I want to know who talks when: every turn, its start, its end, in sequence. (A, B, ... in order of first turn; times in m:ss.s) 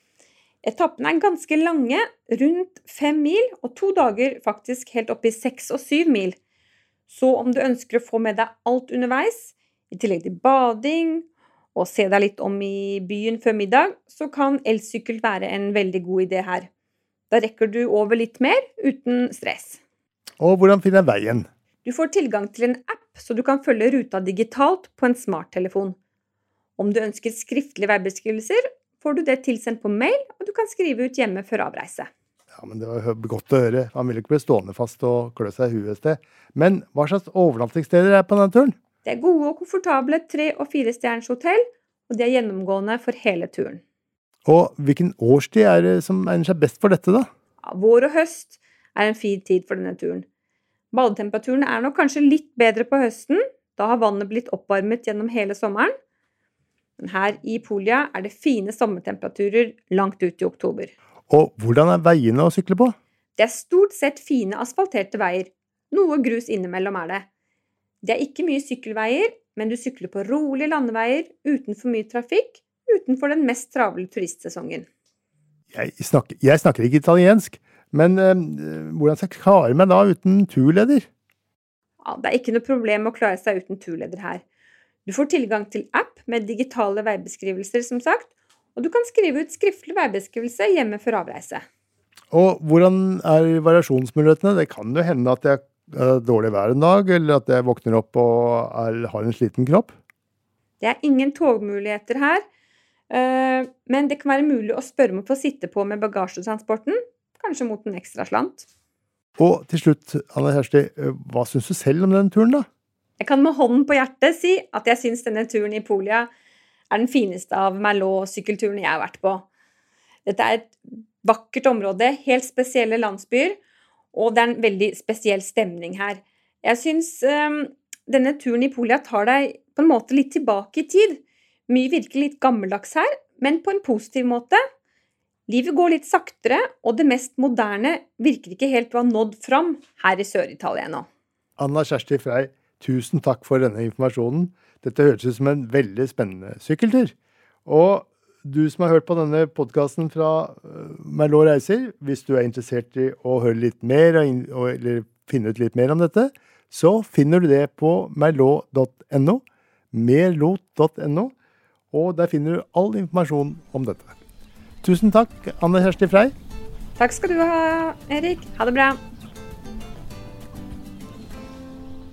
0:00.6-0:06.4 A
0:07.1-0:16.7 A
0:17.3-0:19.8 A
0:20.4-0:21.5 B
0:21.8-0:26.0 A
0:26.8-0:32.1 A
0:32.6-0:38.7 B
0:39.0-0:43.8 A
0:44.5-0:47.3 B
0:47.6-0:50.2 A
0:50.9-0:55.9 A
0:57.0-1:00.9 A
1:01.3-1:03.0 B
1:03.4-1:07.3 A
1:08.0-1:14.9 A
1:15.7-1:21.1 B
1:22.0-1:24.4 A
1:25.0-1:31.6 A
1:32.3-1:40.0 B
1:40.8-1:42.4 A
1:43.1-1:48.7 A
1:49.4-1:52.7 B
1:53.2-1:56.3 A
1:56.9-1:59.5 A
2:00.3-2:03.6 A
2:04.1-2:14.6 A
2:15.5-2:21.1 A
2:21.6-2:27.1 B
2:27.7-2:41.3 B
2:41.9-2:44.2 B
2:44.8-2:46.3 B
2:47.0-2:49.0 A